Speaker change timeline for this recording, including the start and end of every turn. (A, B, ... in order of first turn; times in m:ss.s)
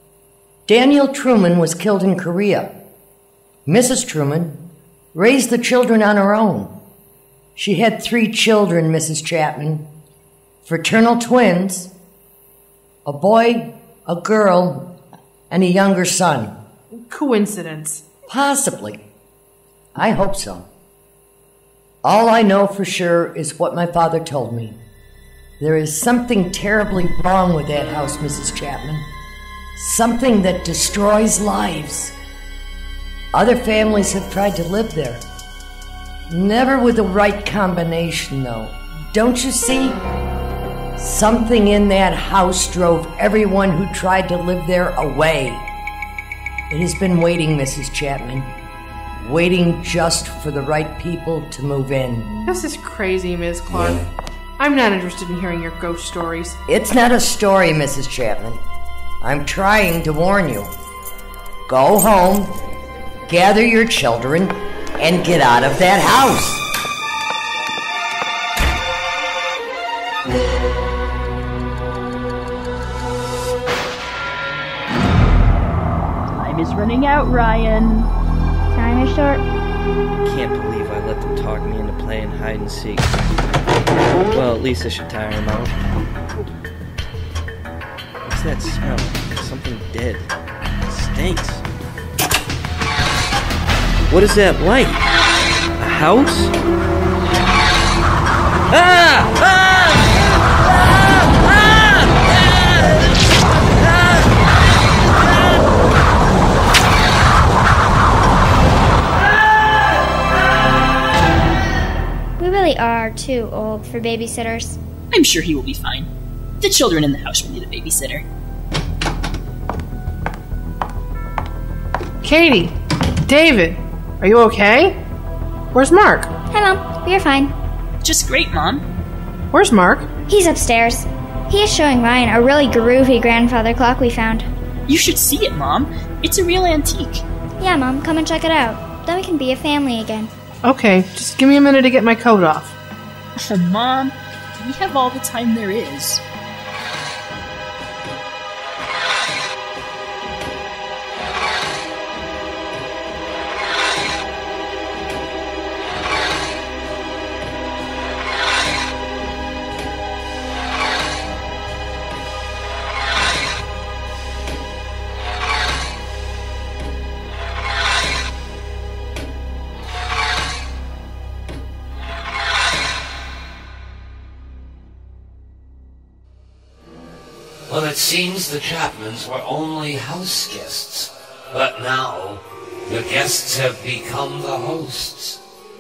0:00.7-0:02.7 A
0:03.6-0:04.6 A
0:05.1-0:06.7 A
0:07.6-0:09.9 A
0:10.6-0:11.9 A
0:13.0-0:14.9 A
0:15.5-0:16.5 A
0:17.1-0:18.0 B
0:18.3-0:19.0 A
0:19.9-0:20.7 A
0:22.0-0:24.8 A
0:25.6-0:29.1 A
0:29.8-0:32.1 A
0:33.3-0:35.2 A
0:36.3-0:40.0 A
0:41.0-0:45.6 A
0:46.7-0:48.5 A
0:49.2-0:52.3 A
0:52.3-0:52.6 C
0:52.4-0:54.1 B
0:54.6-0:56.6 B
0:56.7-0:58.6 A
0:59.2-1:00.7 A
1:01.7-1:02.5 A
1:03.3-1:06.6 A
1:16.4-1:18.1 D
1:18.7-1:19.4 C
1:20.2-1:23.1 E
1:24.3-1:25.7 E
1:28.2-1:30.3 E
1:30.9-1:31.6 E
1:34.1-1:35.1 E
1:35.8-1:36.5 E
1:38.7-1:40.1 E
1:40.6-1:43.1 E
1:52.4-1:54.8 C
1:55.1-1:56.1 D
1:56.6-1:58.2 D
2:02.2-2:05.0 B
2:05.7-2:06.3 B
2:06.5-2:07.5 C
2:08.0-2:08.8 D
2:09.5-2:10.1 B
2:10.3-2:14.5 C
2:14.9-2:17.2 D
2:17.6-2:20.3 C
2:20.6-2:22.8 B
2:23.4-2:26.2 D
2:57.7-3:05.4 F